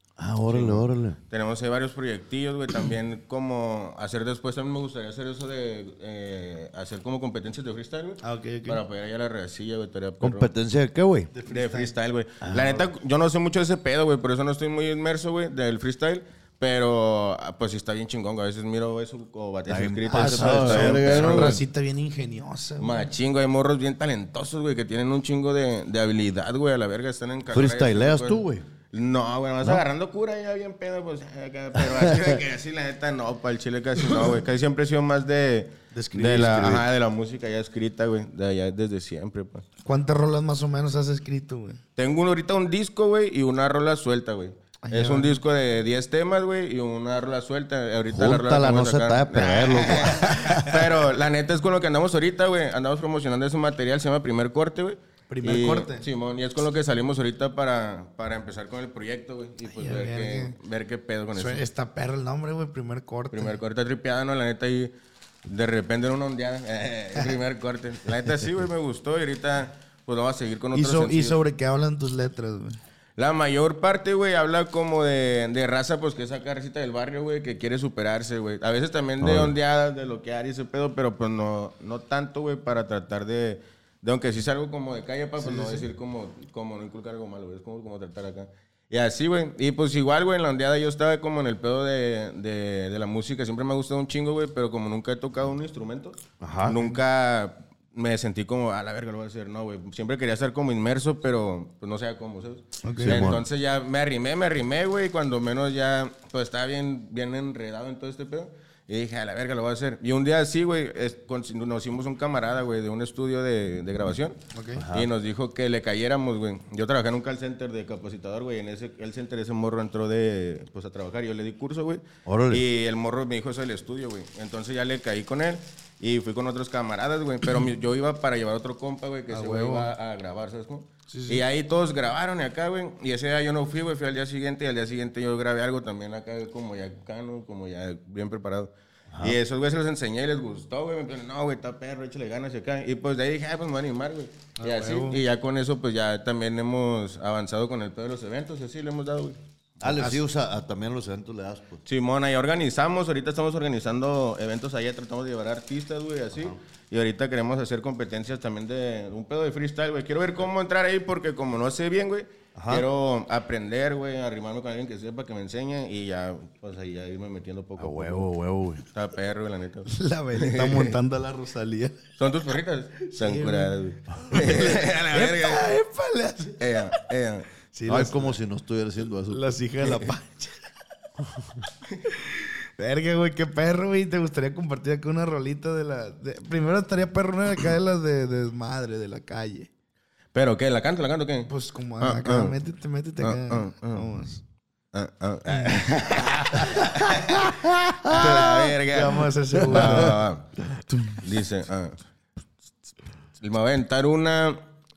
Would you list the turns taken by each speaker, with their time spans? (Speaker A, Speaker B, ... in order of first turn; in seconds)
Speaker A: 0.2-1.2, 10.2-11.3, 12.4-12.9, 19.7-21.6, 27.5-28.7, 31.8-32.4, 48.1-50.6, 79.2-79.6, 96.4-96.8, 103.0-103.5, 114.8-115.1, 122.3-122.7, 139.1-139.4, 149.8-151.8, 162.6-162.9, 167.8-168.8, 177.9-179.4
Speaker B: 0.5-10.5, 11.5-21.6, 22.8-39.6, 42.0-61.6, 63.3-64.9, 65.5-71.4, 73.2-114.4, 114.9-149.4, 151.9-168.3, 168.9-171.0, 172.2-175.7, 176.6-177.5, 190.3-192.6, 193.2-194.1, 194.9-200.5, 201.2-202.0, 203.4-204.6
Speaker C: 8.2-8.8, 11.3-11.9, 20.1-23.1, 35.9-36.8, 39.9-41.8, 44.8-45.4, 55.3-56.0, 59.7-60.6, 61.4-63.6, 70.7-72.8, 85.4-85.9, 102.8-103.3, 114.5-114.8, 129.3-129.9, 131.1-131.4, 144.6-145.2, 149.9-150.2, 169.9-172.0, 173.1-176.6, 177.7-178.3, 179.3-180.6, 182.8-189.7, 191.5-194.4, 198.1-200.2, 200.9-201.2